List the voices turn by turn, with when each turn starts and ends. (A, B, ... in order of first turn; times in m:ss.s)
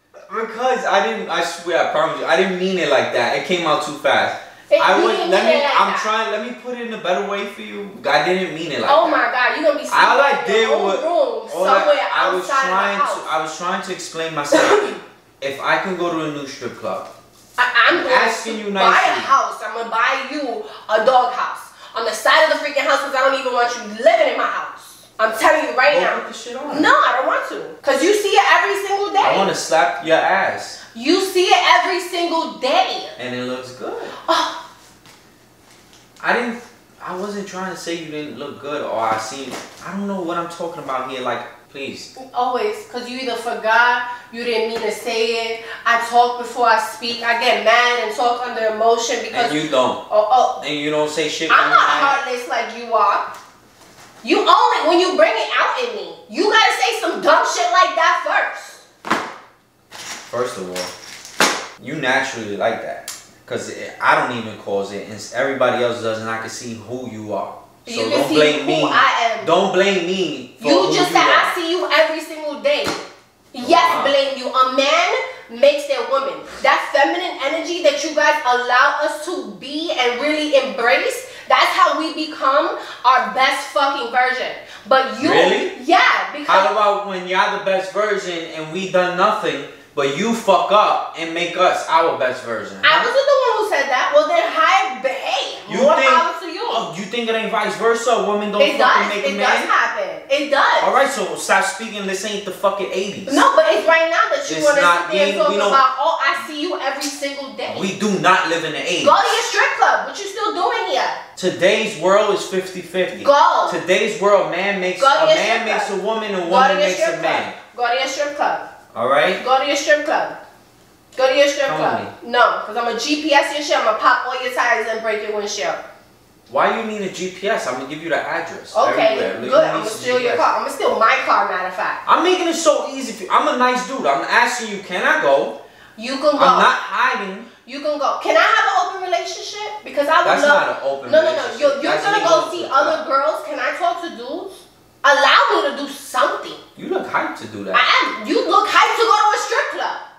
0:00.3-0:09.2 A
0:04.7-0:06.1 B
0:08.8-0:13.3 B
0:09.9-0:17.1 A
0:14.5-0:15.0 B
0:17.6-0:29.5 B
0:17.9-0:19.3 A
0:25.8-0:26.9 A
0:29.2-0:30.8 A
0:30.9-0:33.2 B
0:33.2-0:34.2 A
0:34.2-0:34.6 B
0:36.2-0:42.1 A
0:42.2-0:50.6 B
0:49.3-0:50.0 A
0:50.6-0:52.2 A
0:51.5-0:53.3 B
0:54.2-0:58.8 B
1:00.2-1:00.9 A
1:01.8-1:11.6 A
1:07.8-1:09.5 B
1:10.6-1:26.8 B
1:13.6-1:14.1 A
1:25.2-1:25.7 A
1:26.4-1:33.1 A
1:32.8-1:36.8 B
1:35.7-1:39.7 A
1:38.6-1:41.0 B
1:40.8-1:43.4 A
1:43.2-1:47.9 B
1:44.4-1:45.8 A
1:47.7-1:49.2 A
1:49.0-1:51.2 B
1:51.4-1:57.6 A
1:53.1-1:53.8 B
1:55.0-1:58.7 B
1:58.9-1:59.4 A
1:59.4-2:00.4 B
2:01.1-2:05.8 B
2:01.6-2:02.1 A
2:06.5-2:10.5 A
2:08.7-2:12.0 B
2:12.0-2:15.6 A
2:16.0-2:16.7 B
2:16.4-2:17.5 A
2:17.6-2:26.6 B
2:20.2-2:23.0 A
2:26.8-2:27.8 A
2:27.7-2:30.0 B